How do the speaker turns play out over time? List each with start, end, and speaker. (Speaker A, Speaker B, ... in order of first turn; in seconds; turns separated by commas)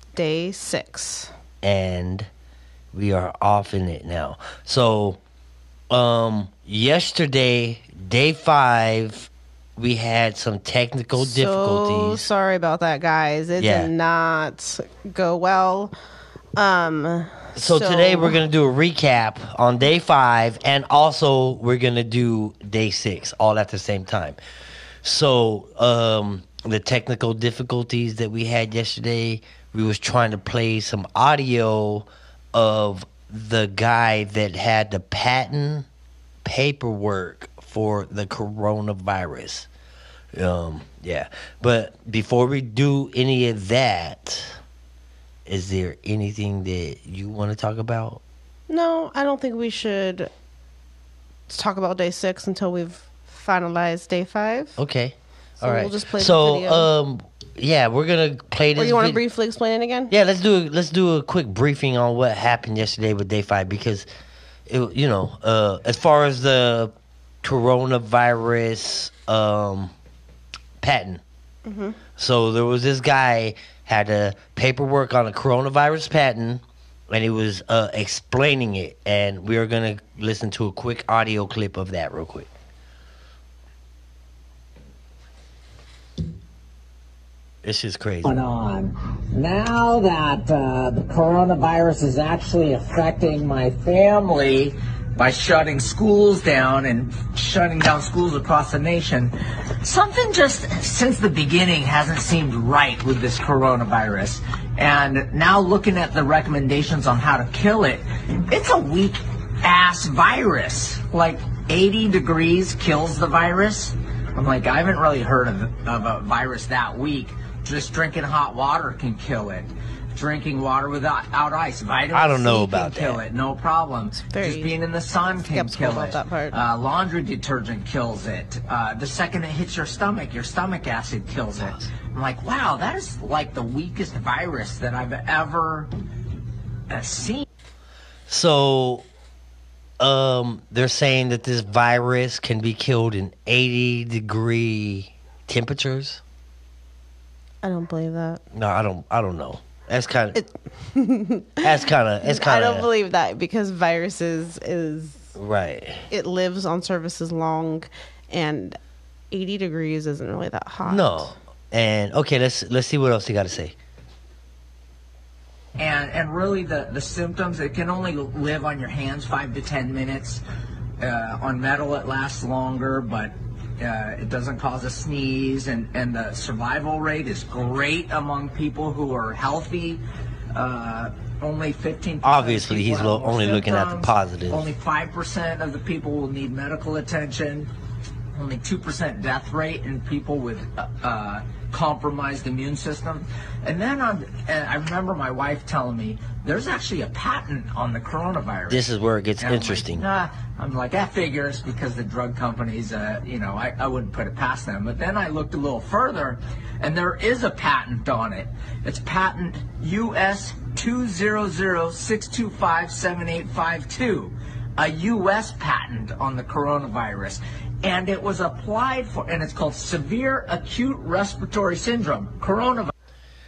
Speaker A: 0.1-1.3, Speaker B: 1.6-2.3, Speaker B: 2.9-5.2, Speaker B: 5.9-12.3, Speaker A: 11.2-15.9, Speaker B: 13.6-13.9, Speaker A: 16.6-18.4, Speaker B: 17.6-24.4, Speaker B: 25.0-35.9, Speaker B: 36.4-39.7, Speaker B: 40.3-44.6, Speaker B: 45.5-48.2, Speaker A: 48.7-50.3, Speaker A: 51.5-54.8, Speaker B: 54.8-59.2, Speaker A: 55.6-56.9, Speaker A: 58.8-60.1, Speaker B: 60.1-64.1, Speaker B: 64.7-66.9, Speaker B: 67.4-69.9, Speaker B: 70.8-71.2, Speaker A: 71.7-72.0, Speaker B: 72.2-82.5, Speaker B: 87.6-88.3, Speaker C: 88.2-136.0, Speaker B: 122.1-123.2, Speaker A: 124.3-124.8, Speaker A: 125.4-126.6, Speaker C: 136.9-137.5, Speaker B: 138.3-139.1, Speaker B: 140.0-146.2, Speaker A: 147.6-148.4, Speaker B: 148.5-150.4, Speaker A: 150.4-155.3, Speaker B: 151.6-152.9, Speaker B: 155.3-156.1, Speaker A: 156.1-158.8, Speaker A: 159.3-161.3, Speaker B: 160.8-163.8, Speaker C: 165.8-170.4, Speaker C: 171.0-187.7, Speaker B: 182.2-184.7, Speaker C: 188.3-198.9, Speaker B: 198.7-200.1, Speaker C: 199.4-222.9